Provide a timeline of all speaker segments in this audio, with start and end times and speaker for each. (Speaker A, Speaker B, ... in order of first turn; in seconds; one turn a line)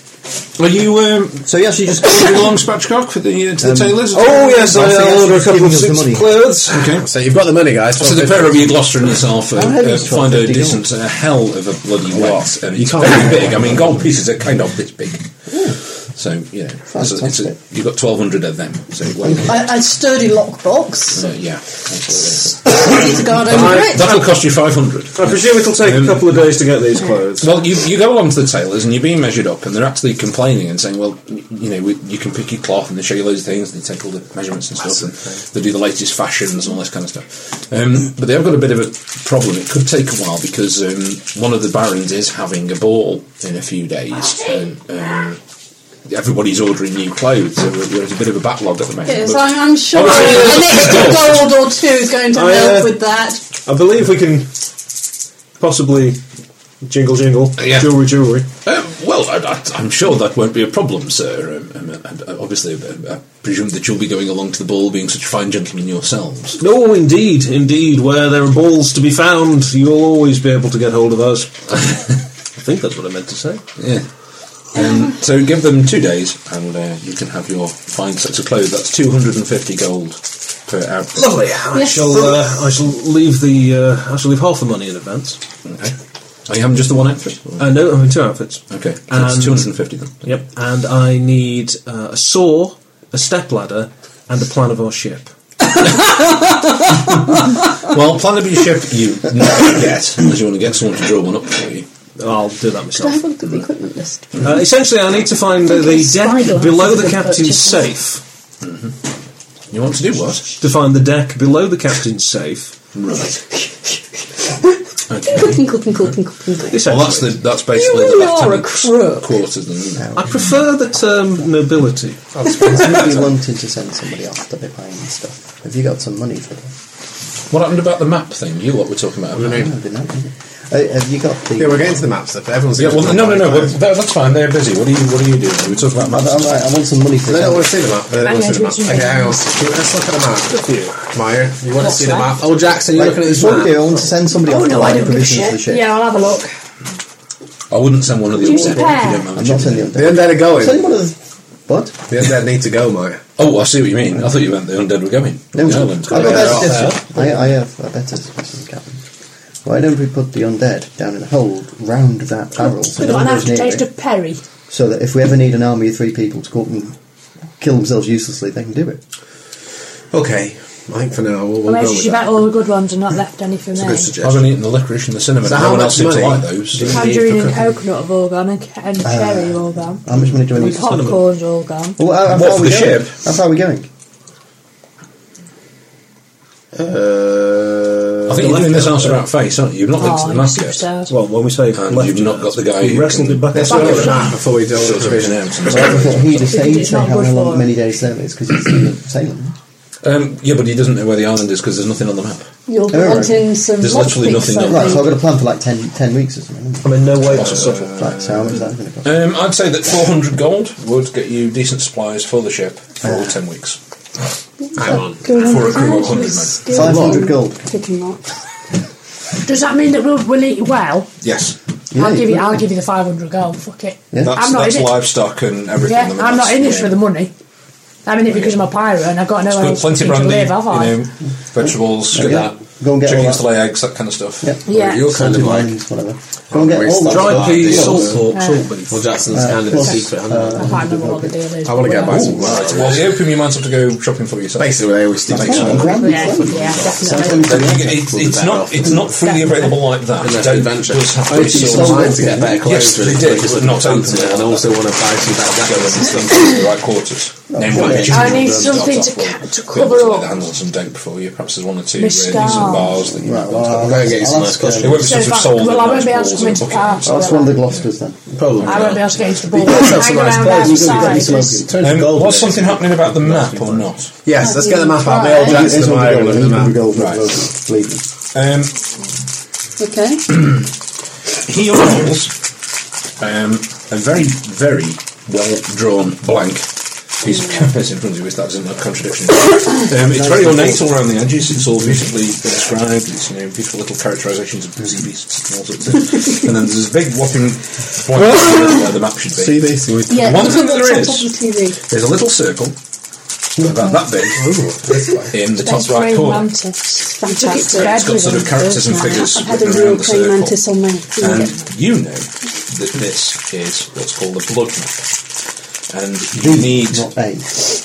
Speaker A: 0.6-4.5
Speaker B: 1.4-2.5
Speaker B: 3.6-6.4
Speaker C: 4.1-6.8
Speaker A: 6.7-7.1
Speaker D: 6.7-8.8
Speaker A: 8.0-15.2
Speaker B: 9.5-10.8
Speaker D: 12.1-13.9
Speaker A: 16.0-19.7
Speaker B: 16.9-17.5
Speaker E: 19.4-21.3
Speaker A: 21.1-26.5
Speaker E: 22.3-24.3
Speaker C: 23.5-24.0
Speaker C: 25.1-27.5
Speaker A: 27.4-45.4
Speaker D: 34.9-35.4
Speaker A: 46.1-51.5
Speaker E: 49.0-53.4
Speaker C: 50.1-50.9
Speaker C: 52.3-53.0
Speaker C: 53.6-54.5
Speaker C: 55.6-56.2
Speaker C: 56.8-58.5
Speaker A: 57.6-57.9
Speaker A: 58.6-66.6
Speaker C: 66.6-72.0
Speaker C: 72.6-73.6
Speaker A: 73.8-74.1
Speaker A: 74.6-81.4
Speaker D: 81.2-82.3
Speaker C: 81.7-85.4
Speaker E: 81.7-82.0
Speaker A: 85.7-85.9
Speaker A: 86.5-87.9
Speaker C: 87.6-95.3
Speaker A: 88.7-90.4
Speaker A: 97.8-101.9
Speaker C: 102.2-103.2
Speaker E: 102.9-104.4
Speaker C: 104.4-108.2
Speaker E: 105.7-107.9
Speaker A: 108.6-108.9
Speaker A: 109.7-110.6
Speaker C: 110.6-112.8
Speaker A: 112.9-113.4
Speaker E: 113.3-114.0
Speaker A: 115.1-116.1
Speaker E: 115.3-117.1
Speaker C: 116.7-117.4
Speaker A: 116.8-120.2
Speaker E: 117.7-119.4
Speaker B: 120.0-120.3
Speaker C: 120.2-122.6
Speaker D: 122.4-122.9
Speaker B: 122.5-126.7
Speaker A: 127.5-129.7
Speaker D: 129.4-129.7
Speaker B: 129.4-132.1
Speaker D: 131.6-133.8
Speaker A: 132.8-136.7
Speaker B: 136.0-137.7
Speaker D: 137.3-144.1
Speaker F: 138.2-139.4
Speaker C: 140.5-140.9
Speaker F: 141.8-142.3
Speaker B: 142.9-145.9
Speaker F: 144.4-146.5
Speaker A: 147.7-150.0
Speaker F: 148.4-149.3
Speaker B: 149.3-152.0
Speaker D: 149.9-150.9
Speaker D: 152.1-153.2
Speaker A: 153.4-156.8
Speaker B: 155.5-159.0
Speaker D: 156.1-157.4
Speaker B: 159.6-163.9
Speaker F: 162.9-164.4
Speaker B: 164.7-166.9
Speaker B: 167.6-169.0
Speaker D: 170.1-172.5
Speaker F: 171.7-174.1
Speaker D: 173.7-174.6
Speaker A: 174.2-177.0
Speaker D: 175.4-177.7
Speaker F: 176.8-180.0
Speaker B: 179.0-181.2
Speaker F: 180.6-182.0
Speaker C: 180.6-181.2
Speaker B: 182.0-183.9
Speaker A: 182.2-183.2
Speaker D: 186.7-188.7
Speaker A: 188.3-190.9
Speaker C: 188.3-189.2
Speaker F: 190.0-191.1
Speaker C: 191.1-194.3
Speaker A: 191.7-196.7
Speaker D: 193.5-196.1
Speaker F: 193.7-194.2
Speaker B: 195.7-199.6
Speaker F: 196.4-197.7
Speaker A: 200.0-202.5
Speaker E: 202.7-205.1
Speaker B: 202.9-203.5
Speaker A: 203.8-205.2
Speaker B: 204.7-209.2
Speaker C: 206.8-207.9
Speaker A: 207.3-213.8
Speaker B: 213.0-213.4
Speaker E: 214.7-218.3
Speaker D: 214.8-215.3
Speaker A: 215.3-216.8
Speaker B: 216.7-217.7
Speaker D: 216.8-217.3
Speaker F: 219.4-221.1
Speaker A: 221.2-221.6
Speaker B: 221.9-222.6
Speaker F: 221.9-225.0
Speaker A: 224.2-227.0
Speaker F: 225.8-227.3
Speaker F: 228.1-231.0
Speaker A: 228.3-228.6
Speaker A: 229.4-234.6
Speaker B: 231.6-233.5
Speaker B: 234.4-238.2
Speaker F: 234.7-235.2
Speaker D: 234.7-235.8
Speaker D: 236.5-238.3
Speaker C: 237.1-239.1
Speaker A: 237.4-238.1
Speaker F: 238.3-238.6
Speaker D: 238.9-241.0
Speaker B: 239.3-241.4
Speaker F: 240.6-242.5
Speaker D: 241.6-243.2
Speaker A: 242.0-254.8
Speaker D: 244.6-249.1
Speaker B: 245.3-248.1
Speaker F: 245.9-247.6
Speaker F: 249.2-249.8
Speaker D: 250.2-256.6
Speaker B: 251.3-252.7
Speaker A: 255.6-264.1
Speaker B: 257.5-258.3
Speaker D: 257.7-258.9
Speaker F: 258.1-260.4
Speaker F: 262.0-263.0
Speaker B: 263.2-265.1
Speaker D: 263.6-265.1
Speaker A: 264.8-267.8
Speaker F: 265.0-267.6
Speaker B: 267.1-268.2
Speaker D: 268.3-276.8
Speaker A: 268.6-269.3
Speaker F: 268.6-271.6
Speaker B: 270.7-271.6
Speaker E: 271.4-271.6
Speaker A: 271.8-274.1
Speaker E: 274.4-275.7
Speaker B: 275.4-278.1
Speaker A: 276.9-277.2
Speaker A: 278.3-278.8
Speaker E: 279.8-280.3
Speaker A: 281.4-282.3
Speaker A: 283.2-302.8
Speaker B: 290.1-290.9
Speaker D: 298.1-300.6
Speaker E: 300.1-301.8
Speaker A: 303.6-304.5
Speaker D: 303.6-305.4
Speaker A: 305.3-306.6
Speaker F: 305.5-308.7
Speaker E: 307.0-311.6
Speaker A: 307.7-310.6
Speaker A: 311.2-315.1
Speaker A: 315.9-317.1
Speaker B: 316.3-317.6